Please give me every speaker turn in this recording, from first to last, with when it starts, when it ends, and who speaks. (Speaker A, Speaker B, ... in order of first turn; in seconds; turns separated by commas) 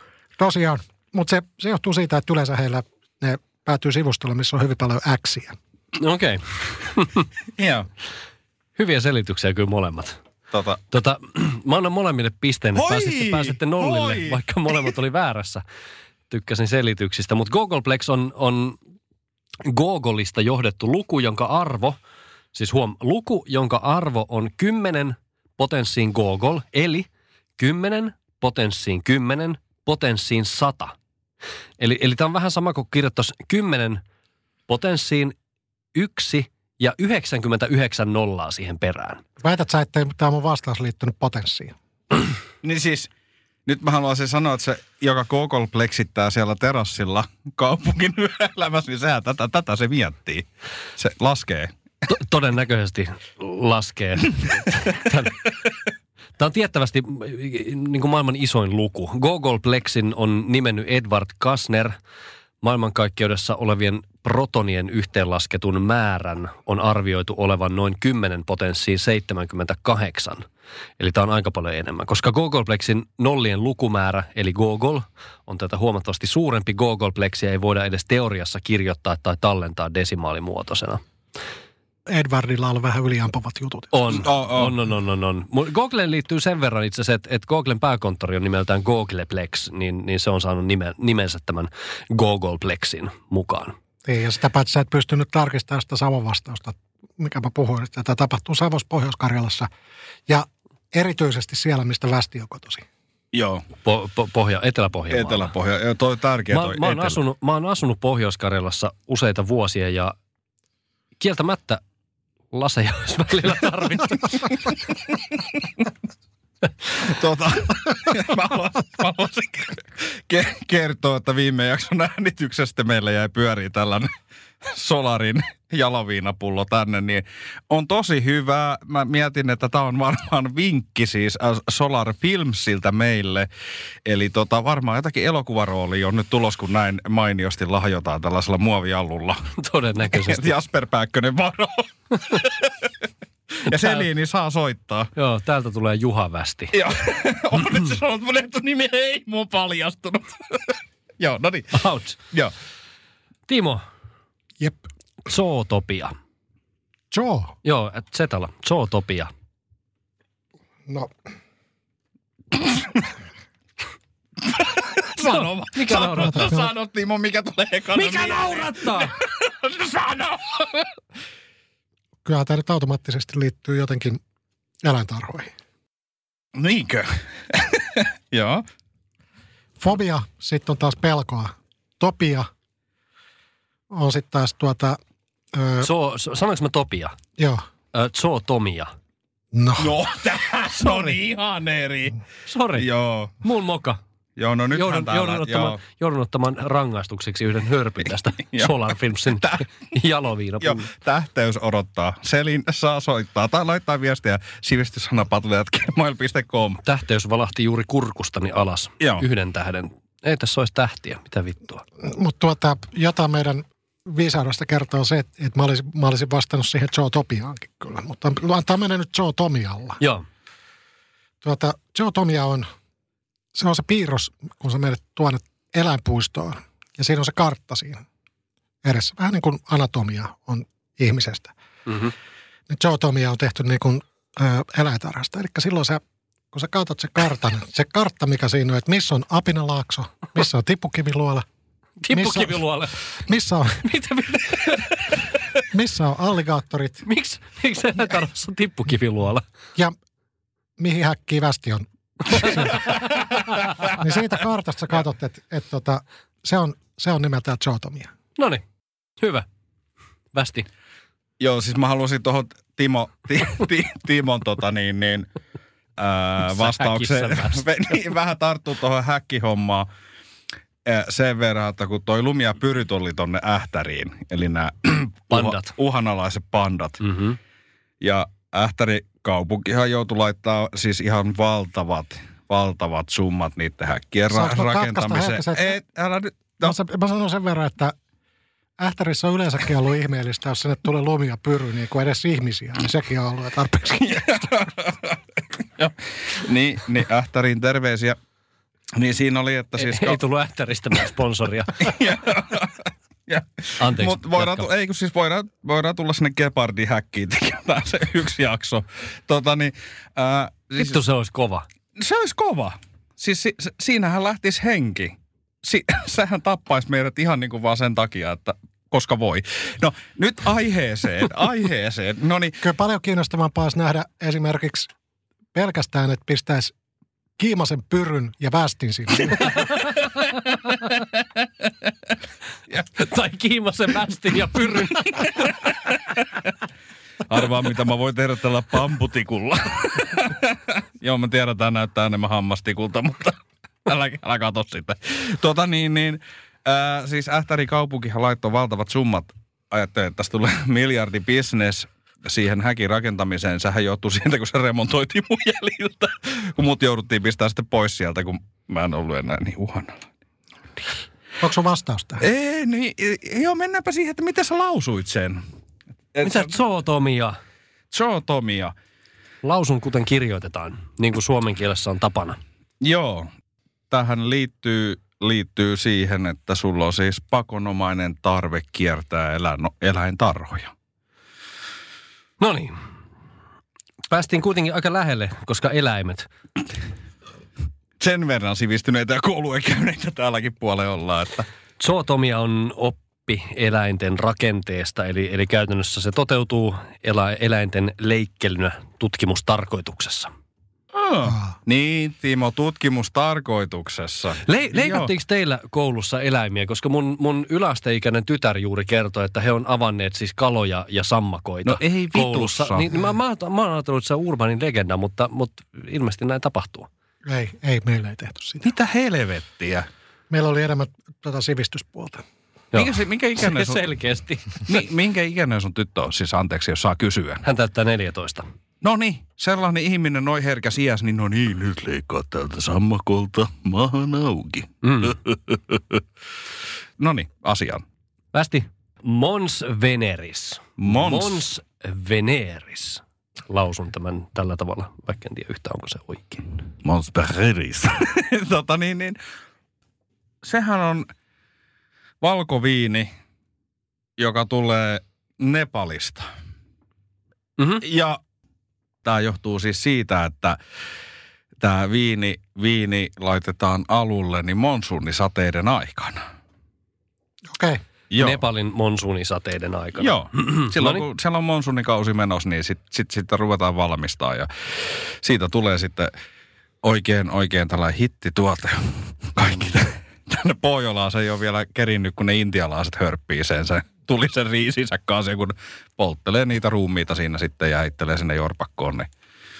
Speaker A: 0.4-5.5, Speaker B: 6.0-7.2, Speaker C: 7.6-7.9, Speaker B: 8.8-10.2, Speaker C: 10.5-10.8, Speaker B: 10.9-15.6, Speaker C: 12.7-14.8, Speaker B: 16.3-18.8, Speaker B: 19.6-22.0, Speaker B: 22.5-30.9, Speaker B: 31.8-34.0, Speaker B: 34.7-35.3, Speaker B: 35.9-39.2, Speaker A: 39.4-41.7, Speaker C: 42.6-43.1, Speaker C: 43.6-50.4, Speaker C: 51.0-51.7, Speaker B: 52.1-55.4, Speaker B: 56.4-62.0, Speaker B: 62.6-70.5, Speaker B: 71.0-81.0, Speaker A: 82.1-84.2, Speaker B: 83.9-93.8, Speaker C: 84.1-84.8, Speaker A: 94.0-99.7, Speaker A: 100.3-102.8, Speaker C: 103.3-103.6, Speaker B: 103.8-105.5, Speaker C: 105.1-107.2, Speaker B: 106.5-110.1, Speaker B: 111.2-111.8, Speaker B: 112.5-114.6, Speaker C: 116.9-124.1, Speaker C: 124.6-133.5, Speaker C: 134.0-139.5, Speaker B: 139.6-140.5, Speaker C: 140.1-142.8, Speaker C: 143.6-145.1, Speaker B: 143.7-144.1, Speaker B: 145.2-146.7, Speaker C: 146.7-152.5, Speaker B: 151.7-152.2, Speaker B: 153.5-153.8, Speaker B: 155.2-156.1, Speaker A: 157.1-157.5, Speaker B: 157.6-159.3, Speaker A: 160.9-161.1, Speaker C: 164.5-170.9, Speaker B: 165.2-166.5, Speaker A: 166.1-166.7, Speaker B: 167.9-169.1, Speaker A: 172.2-174.2, Speaker A: 174.8-175.5, Speaker C: 176.5-178.6, Speaker A: 179.8-182.5, Speaker A: 183.9-185.0, Speaker A: 185.5-185.9, Speaker B: 185.8-187.2, Speaker A: 187.4-187.6, Speaker B: 187.9-188.9, Speaker A: 189.5-189.9, Speaker C: 189.8-192.2, Speaker B: 190.8-191.2, Speaker B: 192.5-192.9, Speaker C: 192.8-193.3, Speaker B: 193.4-194.0, Speaker C: 194.4-195.8, Speaker B: 194.7-200.9, Speaker C: 198.5-198.8, Speaker C: 199.3-199.6, Speaker C: 200.6-206.8, Speaker B: 206.8-211.8, Speaker C: 209.0-209.2, Speaker A: 212.0-220.0, Speaker B: 220.0-220.2, Speaker A: 221.4-222.7, Speaker A: 223.5-228.0, Speaker A: 228.8-231.5, Speaker B: 231.9-232.1, Speaker A: 232.7-241.4, Speaker B: 242.0-243.1, Speaker A: 242.1-242.6, Speaker A: 243.2-243.8, Speaker B: 243.8-245.1, Speaker A: 245.7-247.1, Speaker B: 247.1-249.4, Speaker A: 250.8-253.0, Speaker B: 252.3-253.2, Speaker A: 253.9-258.1, Speaker B: 258.4-258.6, Speaker B: 259.2-259.5, Speaker B: 260.3-260.7, Speaker C: 261.4-265.3, Speaker C: 266.0-269.9, Speaker B: 266.4-267.6, Speaker C: 270.9-277.0, Speaker B: 275.3-275.7, Speaker B: 277.0-277.4, Speaker C: 278.0-286.8, Speaker A: 284.3-285.8, Speaker A: 286.6-287.9, Speaker A: 288.8-294.4, Speaker C: 294.0-298.2, Speaker C: 298.9-300.2, Speaker B: 299.8-301.9, Speaker C: 301.8-311.0, Speaker B: 303.8-304.7, Speaker B: 310.8-311.6, Speaker C: 312.0-322.6, Speaker A: 322.6-324.9, Speaker A: 325.5-326.7, Speaker A: 327.4-329.6, Speaker B: 329.5-329.9, Speaker B: 332.9-335.5, Speaker C: 337.3-360.0, Speaker A: 361.4-362.2, Speaker C: 362.2-365.4, Speaker C: 366.1-366.6, Speaker B: 366.2-367.4, Speaker C: 367.9-368.7, Speaker B: 369.4-372.4, Speaker C: 372.8-373.3, Speaker C: 373.9-380.7, Speaker B: 382.4-382.8, Speaker B: 384.1-386.3, Speaker C: 388.0-391.5, Speaker B: 391.8-400.3, Speaker C: 400.9-405.1, Speaker B: 404.4-416.9, Speaker C: 411.6-412.9, Speaker A: 417.2-418.7, Speaker C: 418.6-419.9, Speaker A: 420.3-422.2, Speaker B: 422.7-424.6, Speaker C: 422.7-423.8, Speaker C: 424.6-427.4, Speaker B: 427.4-428.5, Speaker C: 428.8-436.0, Speaker B: 434.8-435.2, Speaker C: 437.0-437.8, Speaker B: 438.3-446.5, Speaker C: 440.8-441.5, Speaker C: 446.8-449.2, Speaker C: 450.4-451.1, Speaker C: 452.2-453.1, Speaker C: 454.2-456.3, Speaker B: 457.6-457.8, Speaker C: 457.8-458.2, Speaker C: 459.0-460.6, Speaker C: 461.6-466.3, Speaker A: 467.5-467.8, Speaker C: 468.1-468.4, Speaker B: 468.2-471.0, Speaker C: 470.0-476.1, Speaker C: 476.8-489.1